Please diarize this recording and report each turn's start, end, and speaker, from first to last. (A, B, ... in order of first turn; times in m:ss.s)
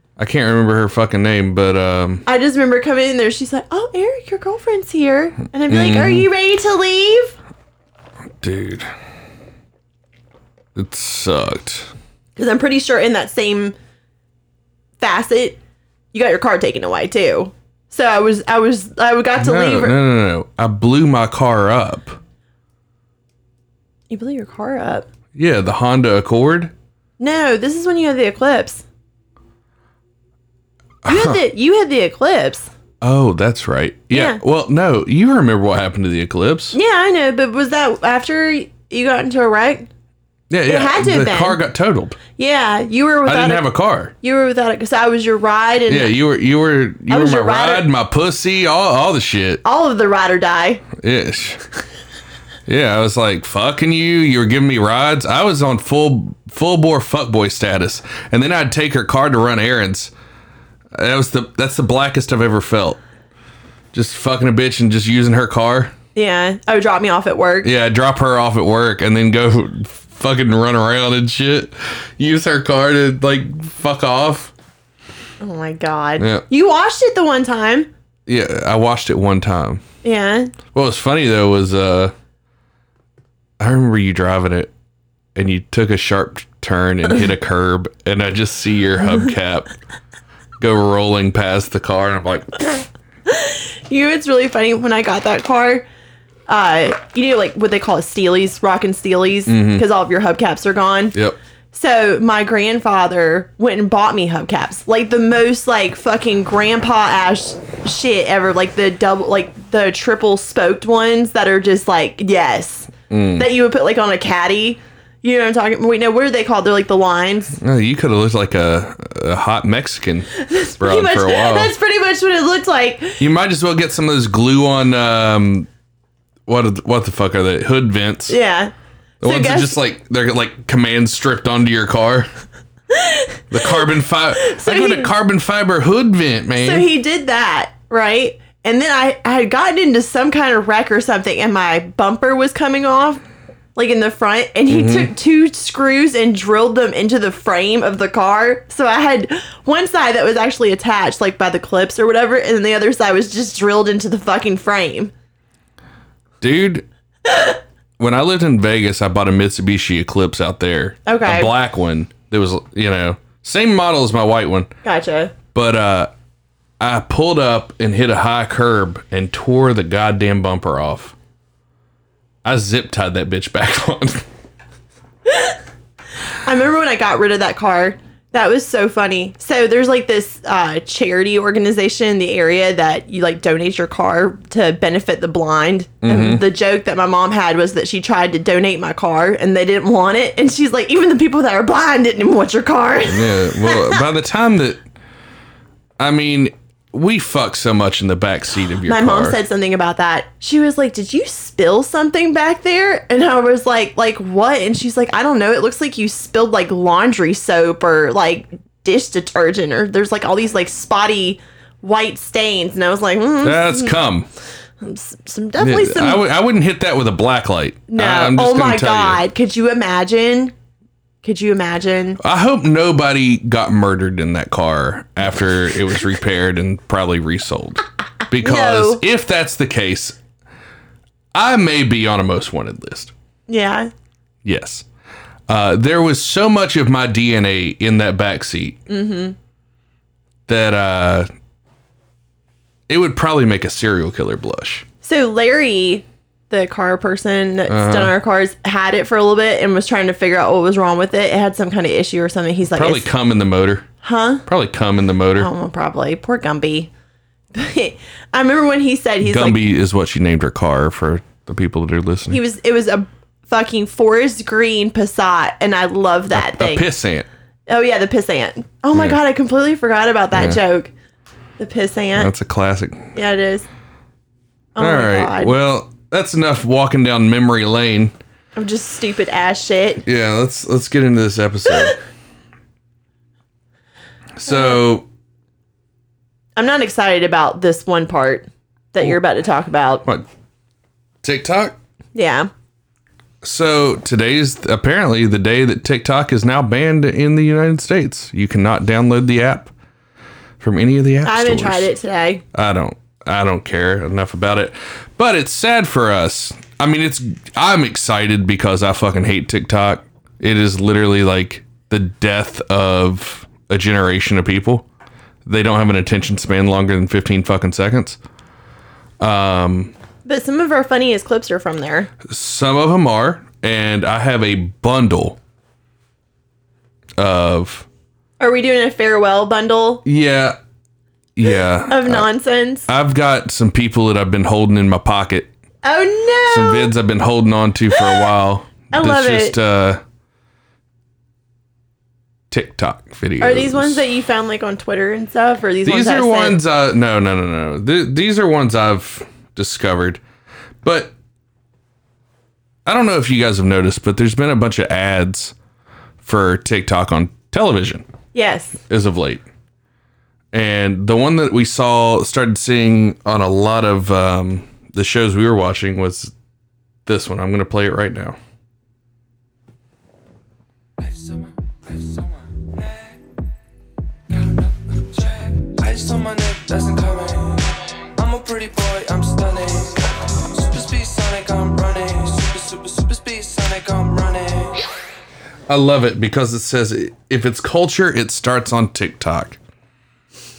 0:00.2-0:02.3 A
0:02.3-0:07.4 B
0:05.7-0:06.3 A
0:08.4-0:08.9 A
0:10.8-0:11.9 A
0:12.4-0:13.8 B
0:15.0-0:15.6 B
0:16.1-0:20.0 B
0:19.4-0:22.2 A
0:24.1-0:25.1 B
0:25.4-0:26.7 A
0:27.2-0:28.8 B
0:31.0-0:31.4 A
0:31.1-0:32.7 B
0:33.0-0:36.8 A
0:34.1-0:34.4 B
0:36.7-0:39.9 B
0:40.5-0:42.2 A
0:40.7-0:41.6 B
0:42.4-0:43.6 B
0:43.3-0:44.1 A
0:44.2-0:46.1 B
0:45.9-0:49.6 A
0:47.1-0:47.9 B
0:49.6-0:50.8 B
0:51.0-0:51.7 A
0:52.7-1:00.1 A
1:01.0-1:03.0 A
1:03.9-1:05.9 A
1:06.2-1:07.7 B
1:07.6-1:14.5 A
1:15.4-1:17.9 B
1:16.2-1:16.4 A
1:18.3-1:19.8 A
1:20.0-1:20.5 B
1:20.7-1:22.1 A
1:23.6-1:24.7 A
1:25.4-1:29.7 A
1:30.6-1:32.6 A
1:33.3-1:35.8 B
1:36.5-1:41.2 B
1:39.5-1:39.8 A
1:41.7-1:57.6 B
1:53.1-1:53.5 A
1:57.6-2:01.7 A
2:00.4-2:03.2 B
2:03.2-2:05.7 A
2:06.5-2:08.4 A
2:08.3-2:09.8 B
2:09.2-2:12.3 A
2:12.9-2:13.8 B
2:13.5-2:16.8 A
2:14.4-2:15.1 B
2:16.6-2:23.2 B
2:23.8-2:35.1 B
2:24.7-2:25.1 A
2:36.4-2:36.8 A
2:38.0-2:44.7 A
2:41.1-2:41.5 B
2:44.8-2:45.3 B
2:45.5-2:46.1 A
2:46.8-2:51.1 A
2:52.4-2:54.2 A
2:55.3-2:55.6 B
2:56.4-3:14.0 B
3:06.0-3:06.4 A
3:13.1-3:14.8 A
3:16.0-3:19.4 A
3:18.9-3:34.0 B
3:33.4-3:34.3 A
3:34.8-3:36.2 B
3:35.6-3:39.2 A
3:37.9-3:40.5 B
3:41.2-3:42.2 B
3:42.2-3:50.2 A
3:48.4-3:49.0 B
3:51.3-3:53.1 A
3:53.5-3:53.9 B
3:54.4-3:54.8 A
3:55.5-3:58.8 A
3:58.9-3:59.4 B
4:00.5-4:01.3 A
4:02.9-4:04.8 A
4:05.0-4:13.1 B
4:07.7-4:08.1 A
4:12.7-4:13.8 A
4:14.0-4:14.4 B
4:14.5-4:15.5 A
4:15.4-4:16.9 B
4:17.5-4:19.6 B
4:19.2-4:22.4 A
4:22.3-4:26.8 B
4:26.3-4:27.3 A
4:27.7-4:30.9 B
4:30.3-4:30.6 A
4:31.6-4:32.3 B
4:32.2-4:33.1 A
4:33.2-4:33.7 B
4:34.8-4:35.6 B
4:34.8-4:38.2 A
4:38.6-4:40.0 B
4:40.0-4:42.0 A
4:44.4-4:45.0 A
4:44.5-4:44.8 B
4:46.6-4:50.0 B
4:51.2-4:51.8 A
4:52.2-4:52.5 B
4:53.4-4:59.7 A
5:00.6-5:01.9 A
5:01.2-5:02.4 B
5:02.5-5:14.9 A
5:15.5-5:18.2 A
5:19.2-5:19.9 A
5:20.2-5:22.1 B
5:22.3-5:25.4 A
5:27.2-5:27.9 A
5:28.4-5:30.0 B
5:30.0-5:30.6 A
5:31.4-5:32.3 A
5:31.9-5:32.9 B
5:32.9-5:35.5 A
5:35.8-5:36.9 B
5:36.5-5:40.0 A
5:38.0-5:38.3 B
5:38.9-5:39.6 B
5:42.5-5:44.0 A
5:43.4-5:46.6 B
5:45.9-5:50.2 A
5:50.8-5:51.1 A
5:52.9-5:55.5 A
5:56.2-5:58.0 A
5:58.3-5:58.8 B
5:58.9-5:59.4 A
6:00.5-6:06.3 A
6:07.1-6:08.4 A
6:11.0-6:13.2 C
6:14.3-6:24.9 C
6:25.7-6:29.6 A